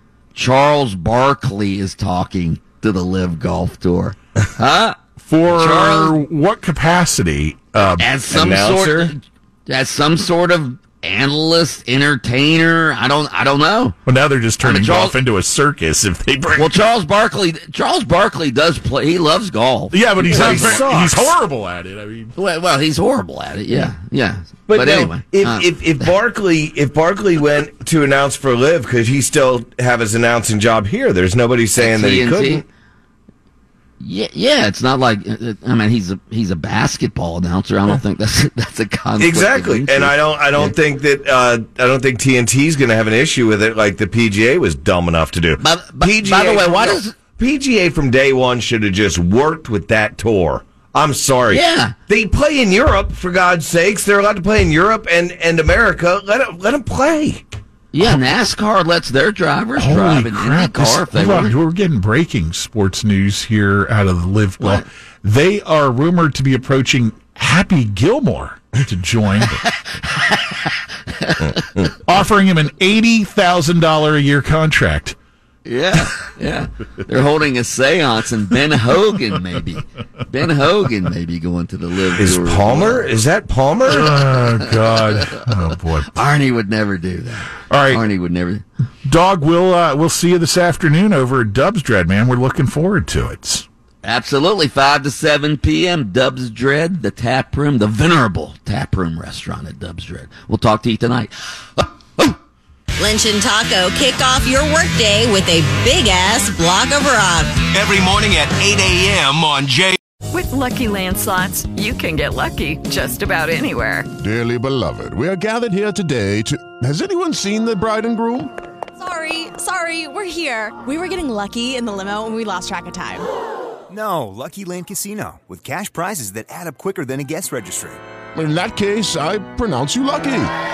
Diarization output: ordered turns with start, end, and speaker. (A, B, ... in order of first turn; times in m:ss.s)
0:00.3-0:06.2 A
0:05.2-0:08.0 B
0:07.9-0:14.0 A
0:08.3-0:09.1 C
0:14.0-0:16.8 B
0:14.6-0:15.2 A
0:16.6-0:20.8 A
0:19.9-0:22.3 B
0:20.2-0:21.4 C
0:22.4-0:26.1 A
0:24.7-0:32.6 C
0:31.8-0:32.6 A
0:34.0-0:40.7 A
0:39.2-0:57.4 C
0:45.6-0:47.1 A
0:51.5-0:52.0 A
0:57.9-1:01.5 A
0:59.8-1:09.6 B
1:04.6-1:04.8 A
1:09.6-1:11.7 A
1:12.0-1:15.2 B
1:15.6-1:23.1 A
1:22.2-1:24.1 C
1:23.9-1:26.1 B
1:23.9-1:25.0 A
1:26.0-1:28.6 A
1:27.7-1:28.0 B
1:29.0-1:33.6 B
1:34.0-1:42.4 A
1:43.0-1:47.5 D
1:47.7-1:50.0 E
1:50.3-1:54.1 F
1:54.2-1:58.5 G
1:59.0-2:03.2 H
2:03.9-2:08.0 I
2:08.3-2:10.5 G